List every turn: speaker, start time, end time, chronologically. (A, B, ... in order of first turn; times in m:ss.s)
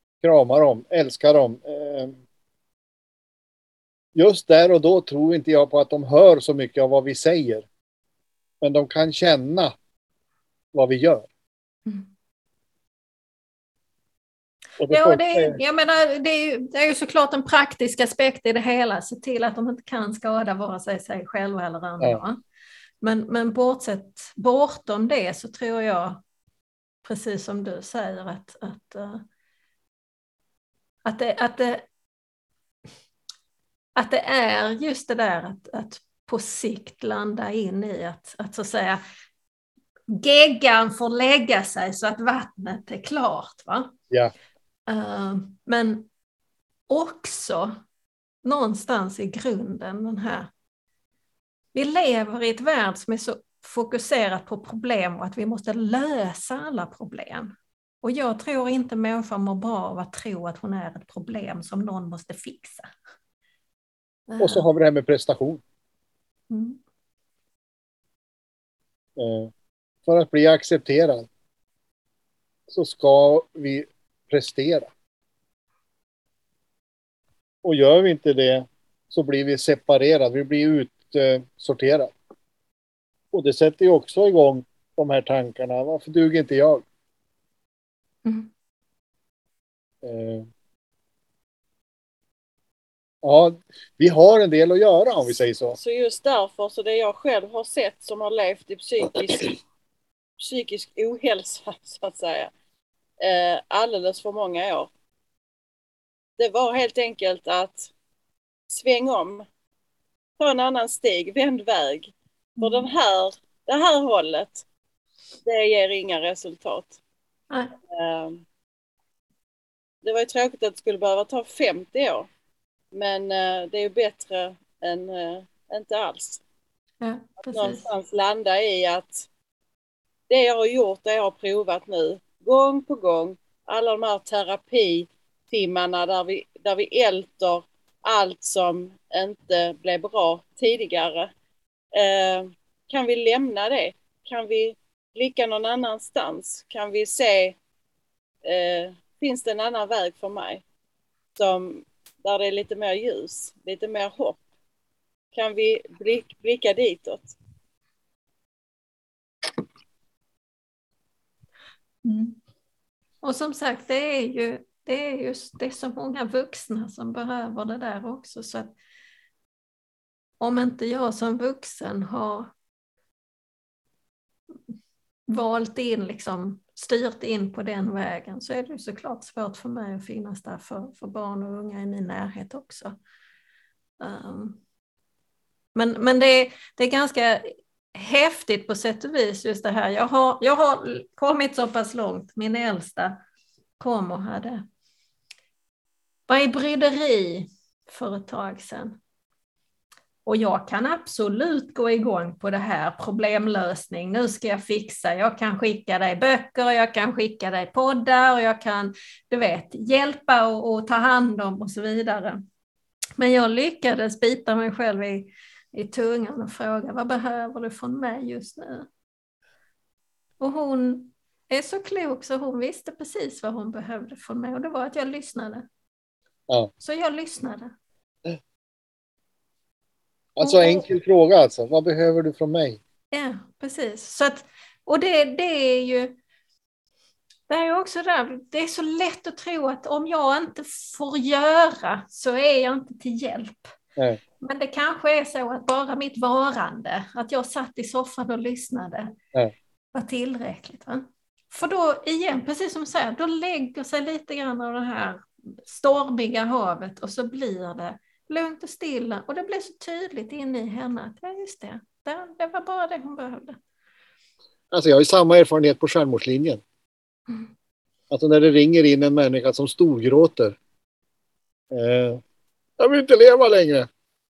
0:00.2-0:02.2 A
0:04.2-0:07.7 A
0:08.6-0:09.7 A
0:10.7-0:11.3 A
0:14.8-0:15.6 A
0:14.9-0:22.4 B
0:23.0-0:26.2 B
0:27.0-0:29.2 B
0:31.0-0:31.9 B
0:34.0-0:39.0 B
0:40.1-0:43.9 B
0:44.9-0:46.1 B
0:46.9-0:47.8 B
0:48.4-0:50.5 B
0:51.7-1:02.9 B
1:04.3-1:04.7 B
1:04.4-1:05.6 A
1:06.5-1:06.8 B
1:09.2-1:09.5 A
1:10.1-1:11.3 A
1:12.7-1:14.9 A
1:17.6-1:22.1 A
1:23.3-1:26.8 A
1:30.0-1:30.5 A
1:33.2-1:35.8 A
1:35.8-1:39.6 C
1:40.4-1:42.5 C
1:43.2-1:44.9 C
1:46.4-1:47.9 C
1:48.7-1:49.5 C
1:50.4-1:54.6 C
1:52.6-1:52.9 B
1:55.4-1:57.0 C
1:57.9-1:58.4 C
2:00.0-2:02.3 C
2:02.9-2:06.4 C
2:07.0-2:07.9 B
2:07.5-2:09.3 C
2:10.3-2:21.3 C
2:21.9-2:27.6 C
2:28.4-2:30.6 C
2:31.4-2:34.4 C
2:35.3-2:37.4 C
2:42.0-2:42.4 B
2:43.2-2:48.8 B
2:50.4-2:52.5 B
2:55.3-3:03.0 B
3:04.0-3:04.6 B
3:05.8-3:13.2 B
3:13.8-3:14.6 B
3:16.3-3:19.0 B
3:20.2-3:32.4 B
3:33.2-3:38.9 B
3:40.4-3:45.7 B
3:46.8-3:47.8 B
3:50.4-3:52.8 A
3:50.4-3:50.9 B
3:53.1-3:56.2 B
3:57.5-4:03.8 B
4:04.4-4:09.2 B
4:09.9-4:23.6 B
4:24.7-4:26.6 A
4:28.1-4:30.6 A
4:31.7-4:32.2 A
4:32.8-4:33.9 A